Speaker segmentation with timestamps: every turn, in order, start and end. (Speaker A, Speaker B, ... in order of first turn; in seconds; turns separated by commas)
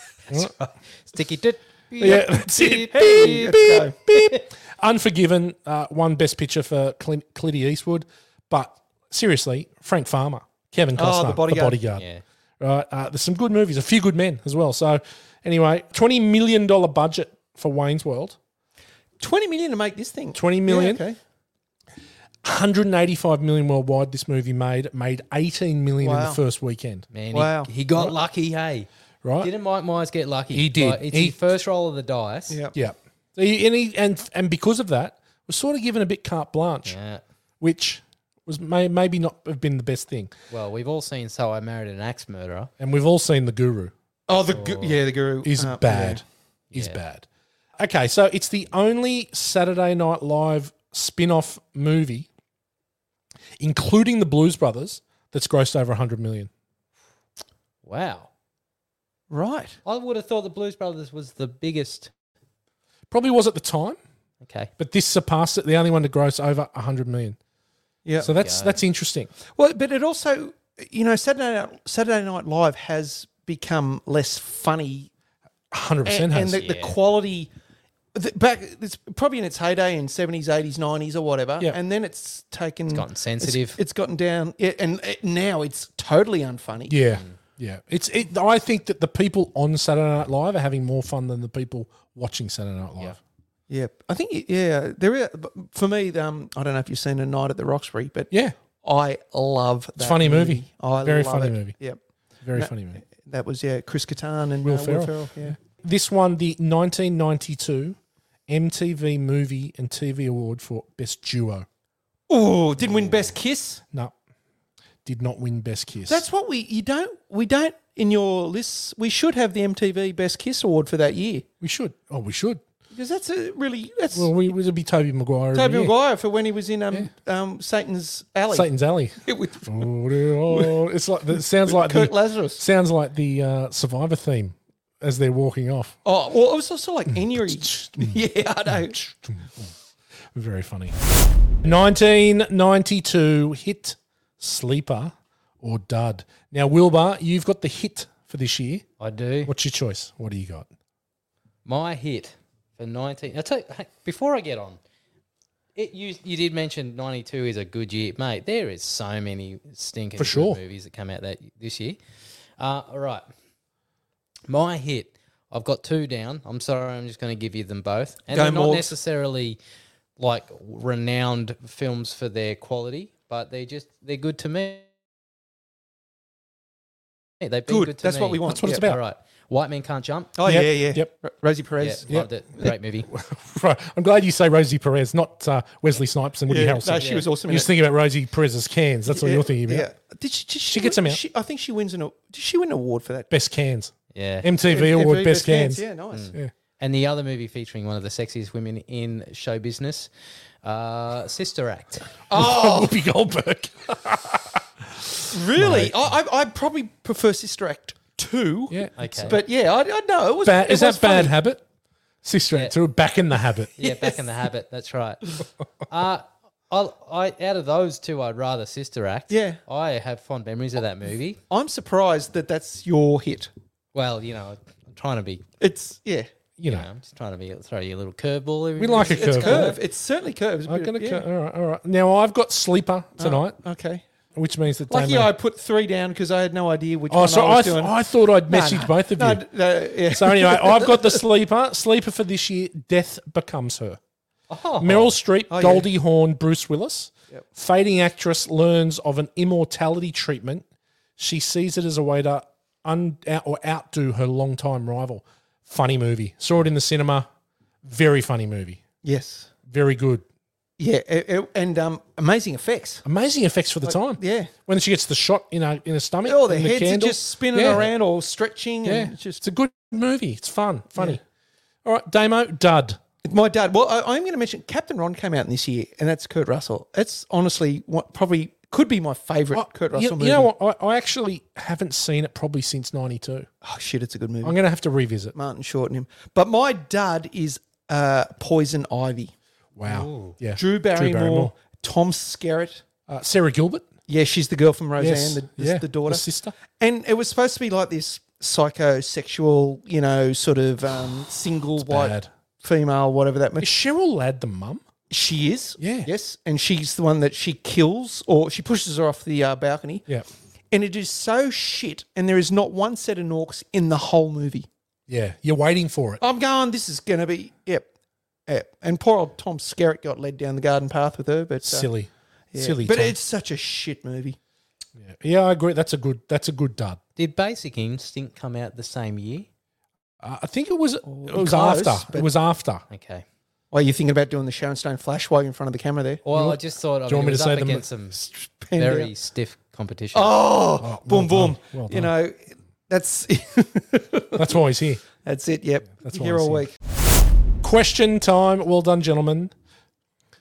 Speaker A: 0.3-3.5, Speaker B: 2.0-12.1, Speaker C: 2.9-4.0, Speaker C: 11.0-11.8, Speaker A: 12.0-12.2, Speaker B: 12.6-18.4, Speaker C: 19.2-21.2, Speaker B: 20.3-21.0, Speaker B: 22.4-27.1, Speaker C: 26.0-26.4, Speaker A: 27.1-28.9, Speaker C: 27.3-27.7, Speaker B: 29.2-29.5, Speaker A: 29.4-32.6, Speaker B: 30.5-31.4, Speaker C: 32.5-32.8, Speaker B: 32.7-37.0, Speaker A: 36.9-37.2, Speaker B: 37.6-40.3, Speaker A: 40.5-42.7, Speaker B: 42.8-43.9, Speaker C: 44.3-46.2, Speaker A: 44.5-45.0, Speaker B: 45.4-47.3, Speaker A: 46.7-47.0, Speaker B: 47.8-52.3, Speaker B: 53.6-56.5, Speaker A: 57.9-58.3, Speaker C: 59.3-59.8, Speaker A: 59.9-62.1, Speaker B: 63.1-64.0, Speaker A: 64.4-64.7, Speaker B: 64.8-67.4, Speaker B: 68.2-69.3, Speaker A: 68.3-68.8, Speaker C: 69.5-75.1, Speaker B: 75.7-76.6, Speaker C: 76.0-77.5, Speaker A: 76.6-77.0, Speaker C: 78.2-87.0, Speaker A: 82.9-83.8, Speaker B: 86.9-93.2, Speaker A: 87.1-87.4, Speaker C: 93.7-98.3, Speaker B: 98.3-98.6, Speaker C: 98.8-102.0, Speaker B: 100.0-101.8, Speaker B: 102.4-103.0, Speaker C: 102.5-105.6, Speaker B: 104.6-108.0, Speaker B: 108.5-111.7, Speaker C: 112.3-113.8, Speaker B: 115.0-116.2, Speaker C: 116.1-121.5, Speaker B: 121.6-122.6, Speaker C: 122.9-124.3, Speaker B: 124.1-125.9, Speaker C: 125.5-128.7, Speaker B: 128.5-136.0, Speaker C: 129.2-129.9, Speaker C: 130.5-130.8, Speaker C: 131.7-132.6, Speaker C: 136.0-139.0, Speaker B: 137.1-139.7, Speaker B: 140.3-141.0, Speaker B: 141.6-148.8, Speaker A: 149.0-149.5, Speaker B: 149.4-150.7, Speaker A: 151.7-154.8, Speaker A: 155.8-162.0, Speaker B: 160.2-160.6, Speaker A: 162.6-163.3, Speaker A: 164.5-169.6, Speaker C: 168.3-168.9, Speaker A: 170.2-174.9, Speaker A: 177.4-180.3, Speaker C: 177.7-178.9, Speaker B: 178.5-179.0, Speaker C: 180.4-182.1, Speaker B: 180.4-181.1, Speaker A: 181.8-183.1, Speaker B: 182.1-189.9, Speaker C: 186.5-187.7, Speaker A: 187.0-187.3, Speaker C: 189.1-193.3, Speaker B: 190.7-191.2, Speaker B: 193.3-195.8, Speaker A: 194.1-194.5, Speaker C: 194.7-196.3, Speaker A: 196.1-200.1, Speaker A: 200.6-202.1, Speaker C: 202.3-202.9, Speaker B: 202.3-205.9, Speaker C: 205.3-208.8, Speaker B: 208.7-209.4, Speaker A: 209.0-209.4, Speaker C: 209.3-211.3, Speaker B: 210.4-211.6, Speaker B: 212.2-213.7, Speaker A: 213.8-215.2, Speaker C: 213.8-214.2, Speaker A: 215.9-221.4, Speaker C: 219.3-219.6, Speaker C: 221.5-223.5, Speaker A: 223.9-225.4, Speaker C: 225.6-226.3, Speaker B: 226.6-226.9, Speaker A: 226.7-229.8, Speaker B: 228.8-229.8, Speaker C: 229.1-231.2, Speaker B: 230.7-233.6, Speaker C: 233.2-234.0, Speaker B: 234.3-235.3, Speaker C: 234.9-237.9, Speaker B: 237.1-239.5, Speaker C: 238.5-241.2, Speaker B: 240.1-244.0, Speaker A: 244.5-245.1, Speaker B: 244.8-250.7, Speaker C: 245.5-245.9, Speaker B: 251.2-257.3, Speaker B: 257.8-258.8, Speaker C: 259.0-259.5, Speaker B: 259.7-260.2, Speaker C: 260.8-263.0, Speaker B: 263.1-267.9, Speaker C: 263.8-264.5, Speaker C: 266.2-269.4, Speaker B: 268.9-271.2, Speaker B: 271.9-273.0, Speaker C: 273.2-280.5, Speaker B: 279.5-283.5, Speaker C: 283.6-284.6, Speaker B: 284.4-285.4, Speaker C: 285.4-289.3, Speaker B: 289.8-291.5, Speaker A: 289.9-290.4, Speaker C: 290.5-292.8, Speaker B: 293.1-293.9, Speaker C: 294.1-296.2, Speaker B: 295.0-296.5, Speaker C: 296.8-303.7, Speaker B: 301.8-302.3, Speaker B: 303.6-304.8, Speaker C: 305.1-310.1, Speaker B: 305.8-306.1, Speaker C: 310.7-314.7, Speaker B: 315.1-316.2, Speaker C: 316.2-317.9, Speaker C: 318.5-321.9, Speaker B: 321.6-323.2, Speaker C: 322.5-324.4, Speaker B: 325.0-327.0, Speaker A: 327.2-329.5, Speaker B: 330.2-332.8, Speaker C: 331.1-332.3, Speaker A: 332.9-333.2, Speaker C: 333.7-336.2, Speaker A: 336.2-338.2, Speaker B: 336.3-337.9, Speaker C: 338.2-339.1, Speaker A: 338.8-340.4, Speaker C: 340.1-344.5, Speaker B: 340.8-342.1, Speaker B: 344.3-345.0, Speaker C: 345.2-346.7, Speaker B: 346.0-346.7, Speaker B: 347.6-349.5